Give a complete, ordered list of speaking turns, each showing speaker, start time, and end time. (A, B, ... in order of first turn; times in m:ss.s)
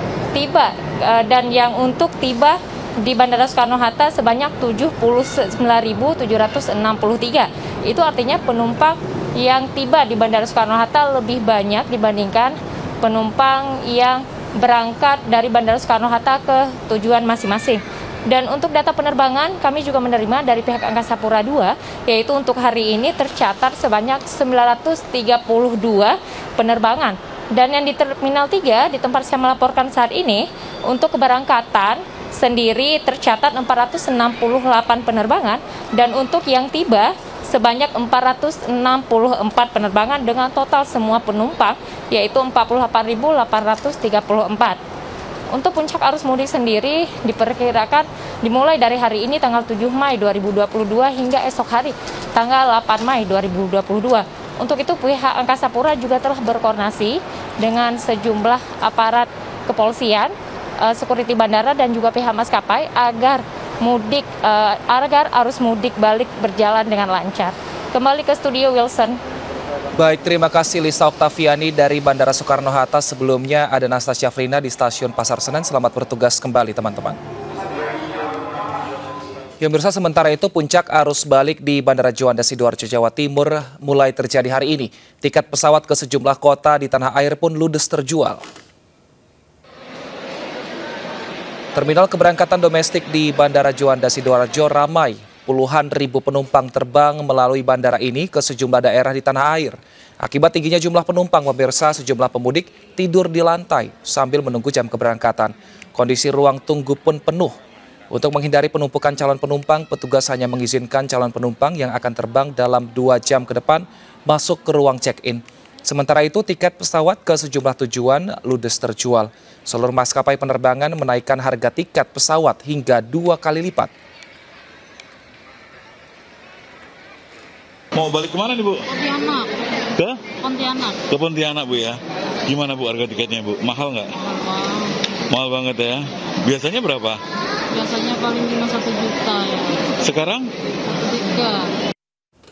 0:00.3-0:44.8 A
0:45.5-1:09.2 A
1:09.9-1:17.2 B
1:19.6-1:28.4 B
1:31.8-1:47.5 B
1:48.1-2:03.9 B
2:07.9-2:08.8 C
2:08.9-2:09.5 D
2:10.0-2:10.3 C
2:10.4-2:11.0 D
2:11.1-2:14.1 C
2:14.2-2:14.9 D
2:15.3-2:17.2 C
2:17.7-2:19.8 D
2:20.0-2:20.5 C
2:21.0-2:21.7 D